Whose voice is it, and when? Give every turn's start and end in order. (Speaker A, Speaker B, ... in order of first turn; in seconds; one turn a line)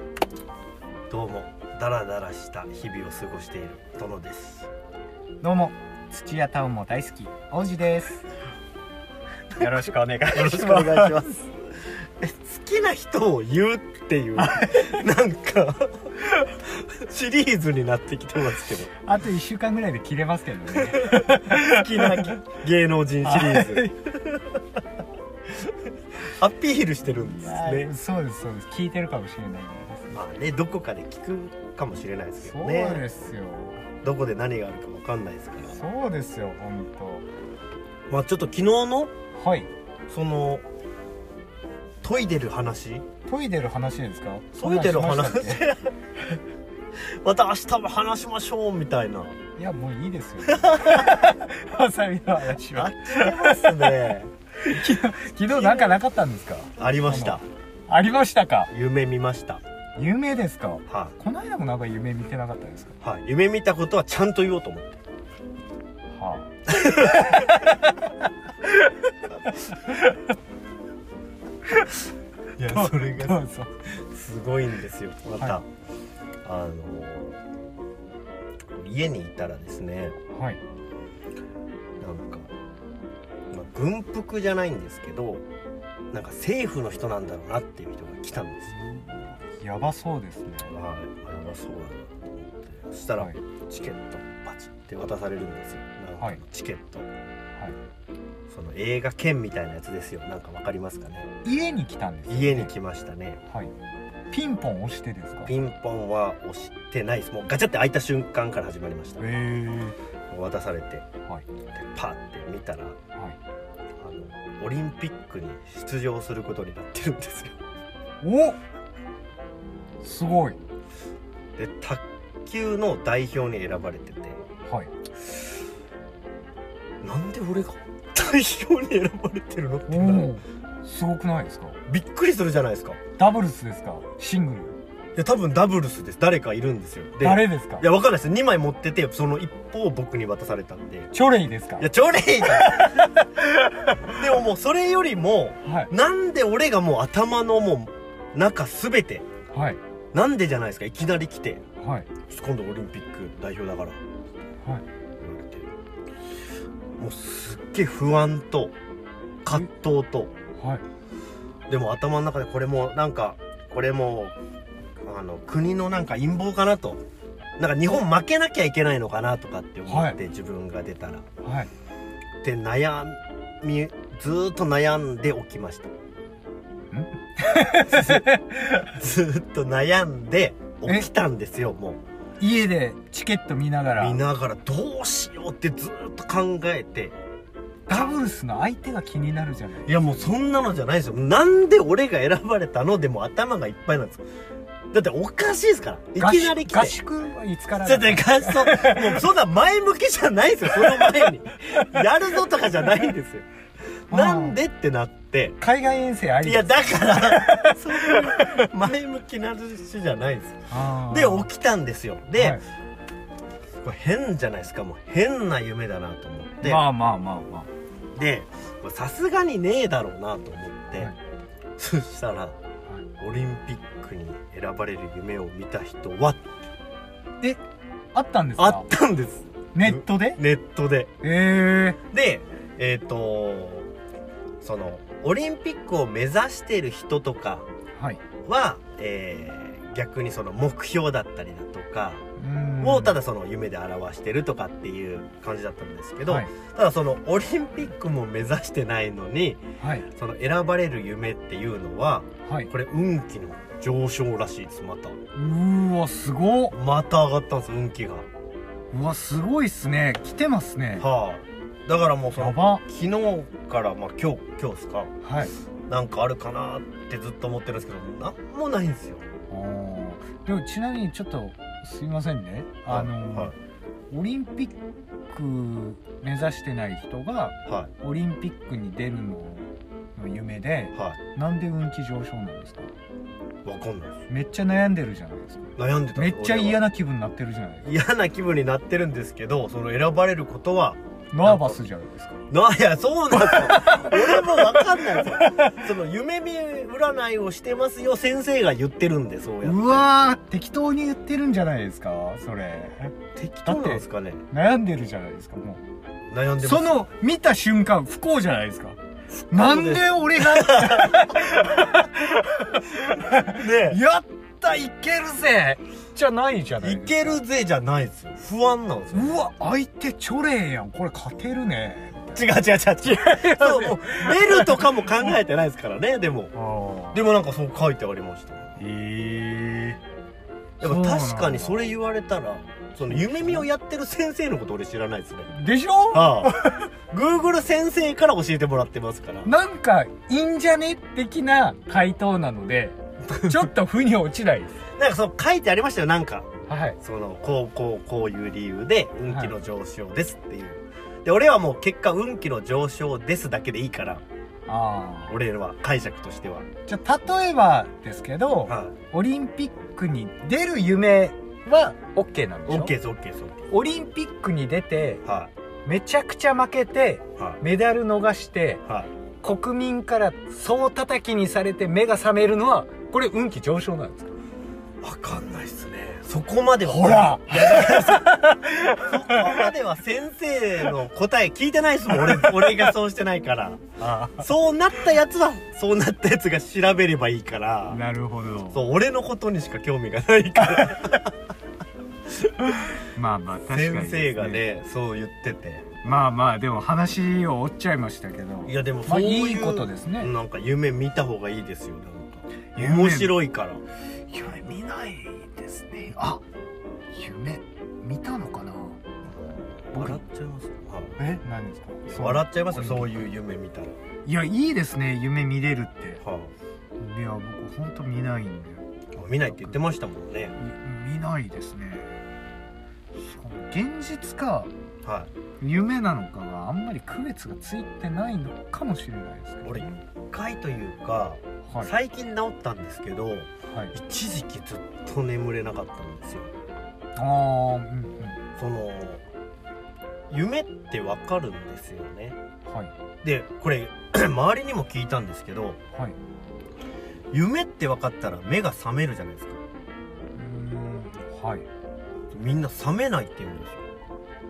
Speaker A: 1.1-4.7
Speaker B: 5.4-8.2
Speaker B: 9.5-11.3
Speaker A: 9.6-16.1
Speaker B: 14.4-15.0
Speaker A: 16.7-18.9
Speaker B: 19.0-22.3
Speaker A: 20.8-23.9
Speaker B: 23.2-23.9
Speaker A: 26.2-27.9
Speaker B: 27.1-30.1
Speaker A: 30.1-33.0
Speaker B: 32.4-33.8
Speaker A: 34.0-35.8
Speaker B: 35.7-37.2
Speaker A: 38.1-39.1
Speaker B: 39.4-39.7
Speaker A: 40.1-40.6
Speaker A: 42.0-43.0
Speaker B: 43.3-45.6
Speaker A: 44.5-45.9
Speaker A: 47.2-49.3
Speaker B: 49.6-53.9
Speaker A: 50.5-51.1
Speaker A: 52.7-54.3
Speaker B: 54.6-58.7
Speaker A: 55.5-56.0
Speaker A: 56.8-57.4
Speaker A: 58.7-59.6
Speaker B: 60.0-63.0
Speaker A: 60.9-61.1
Speaker A: 63.0-65.0
Speaker B: 66.1-68.0
Speaker A: 66.7-67.4
Speaker B: 69.5-70.2
Speaker B: 71.7-72.0
Speaker A: 72.6-75.7
Speaker B: 72.7-73.7
Speaker A: 76.4-77.4
Speaker A: 78.7-80.2
Speaker B: 80.3-80.6
Speaker A: 82.0-82.5
Speaker A: 83.5-85.4
Speaker A: 86.1-88.7
Speaker B: 88.7-90.7
Speaker A: 90.6-97.1
Speaker A: 98.5-101.3
Speaker B: 101.4-102.7
Speaker A: 102.3-103.4
Speaker B: 104.3-105.5
Speaker A: 105.4-109.2
Speaker B: 109.2-110.0
Speaker A: 110.3-111.0
Speaker A: 111.7-113.0
Speaker A: 114.0-117.6
Speaker B: 118.2-118.6
Speaker B: 120.0-120.6
Speaker A: 121.6-124.4
Speaker A: 127.0-130.3
Speaker B: 129.9-131.8
Speaker A: 131.9-133.0
Speaker B: 133.2-134.8
Speaker A: 135.2-141.1
Speaker B: 137.2-137.8
Speaker B: 141.1-141.9
Speaker A: 141.8-143.0
Speaker B: 142.6-144.0
Speaker A: 144.1-149.2
Speaker B: 145.6-145.9
Speaker B: 149.5-149.8
Speaker A: 150.1-151.6
Speaker B: 151.8-152.1
Speaker A: 152.3-154.0
Speaker A: 155.2-155.7
Speaker A: 157.0-158.7
Speaker A: 159.4-160.3
Speaker B: 160.6-160.8
Speaker A: 161.7-164.3
Speaker A: 165.0-167.0
Speaker A: 167.6-171.2
Speaker B: 169.9-170.2
Speaker B: 171.4-171.7
Speaker A: 172.4-175.9
Speaker B: 176.9-178.7
Speaker A: 177.9-182.0
Speaker B: 182.4-184.2
Speaker A: 183.9-187.2
Speaker B: 187.9-190.3
Speaker A: 189.8-194.2
Speaker A: 194.9-197.0
Speaker B: 196.2-199.2
Speaker A: 197.8-203.5
Speaker A: 204.1-205.6
Speaker B: 204.1-204.6
Speaker B: 205.6-208.6
Speaker A: 206.4-212.6
Speaker B: 210.7-211.5
Speaker A: 213.8-216.8
Speaker B: 216.6-217.7
Speaker A: 218.2-221.1
Speaker A: 221.8-222.6
Speaker A: 223.2-226.4
Speaker B: 228.1-228.8
Speaker A: 228.6-231.1
Speaker B: 229.7-230.4
Speaker B: 231.2-232.0
Speaker A: 232.1-233.9
Speaker A: 234.6-237.7
Speaker B: 237.9-238.2
Speaker A: 238.4-242.2
Speaker B: 242.4-243.2
Speaker A: 242.8-255.2
Speaker B: 249.8-250.1
Speaker B: 252.4-252.7
Speaker B: 255.3-256.7
Speaker A: 256.7-258.3
Speaker B: 258.9-261.1
Speaker A: 261.0-265.1
Speaker B: 262.4-262.8
Speaker B: 265.2-265.5
Speaker A: 265.9-269.2
Speaker B: 269.5-273.5
Speaker A: 272.9-273.5
Speaker B: 274.1-274.8
Speaker B: 275.3-282.9
Speaker A: 283.6-284.2
Speaker B: 284.3-287.9
Speaker A: 285.8-286.8
Speaker A: 287.8-291.8
Speaker B: 291.3-292.4
Speaker A: 292.5-300.1
Speaker B: 293.3-295.8
Speaker B: 299.6-305.8
Speaker A: 303.4-304.4
Speaker A: 306.3-307.0
Speaker B: 306.6-309.0
Speaker A: 309.5-311.3
Speaker B: 309.5-317.4
Speaker A: 313.4-314.0
Speaker A: 316.8-319.4
Speaker B: 319.1-322.4
Speaker A: 322.3-326.5
Speaker B: 323.0-325.3
Speaker B: 326.5-327.2
Speaker A: 327.1-328.8
Speaker B: 328.8-330.0
Speaker B: 330.8-331.8
Speaker A: 330.8-335.5
Speaker B: 333.0-333.7
Speaker B: 335.5-336.8
Speaker A: 336.1-336.6
Speaker A: 337.1-339.5
Speaker B: 339.4-344.7
Speaker A: 345.0-354.2
Speaker B: 346.7-347.0
Speaker B: 349.3-349.5
Speaker B: 354.7-355.4
Speaker A: 355.3-356.6
Speaker B: 356.9-362.9
Speaker A: 358.7-358.9
Speaker A: 362.7-363.7
Speaker B: 363.7-365.2
Speaker A: 365.2-365.5
Speaker B: 365.8-368.8
Speaker B: 369.4-374.4
Speaker A: 375.0-388.0
Speaker B: 376.9-379.7
Speaker B: 382.3-382.7
Speaker B: 384.0-384.4
Speaker B: 387.9-388.8
Speaker A: 388.7-391.3
Speaker B: 390.6-391.0
Speaker B: 392.7-394.6
Speaker A: 393.7-395.8
Speaker B: 396.0-400.3
Speaker A: 398.6-403.8
Speaker B: 402.7-403.3
Speaker B: 404.3-406.4
Speaker B: 407.1-409.0
Speaker A: 409.2-411.2
Speaker B: 409.9-410.2
Speaker B: 411.2-413.2
Speaker A: 412.1-414.0
Speaker B: 414.2-416.2
Speaker A: 416.2-416.5
Speaker B: 417.0-419.8
Speaker A: 419.1-420.6
Speaker B: 420.6-422.1
Speaker B: 423.1-424.7
Speaker A: 425.0-425.3
Speaker B: 425.6-429.9
Speaker A: 429.6-436.5
Speaker B: 437.1-438.4
Speaker A: 438.6-439.2
Speaker A: 440.3-442.4
Speaker B: 442.7-442.9
Speaker A: 443.2-445.8
Speaker A: 447.3-449.6
Speaker B: 450.3-451.6
Speaker A: 452.3-453.9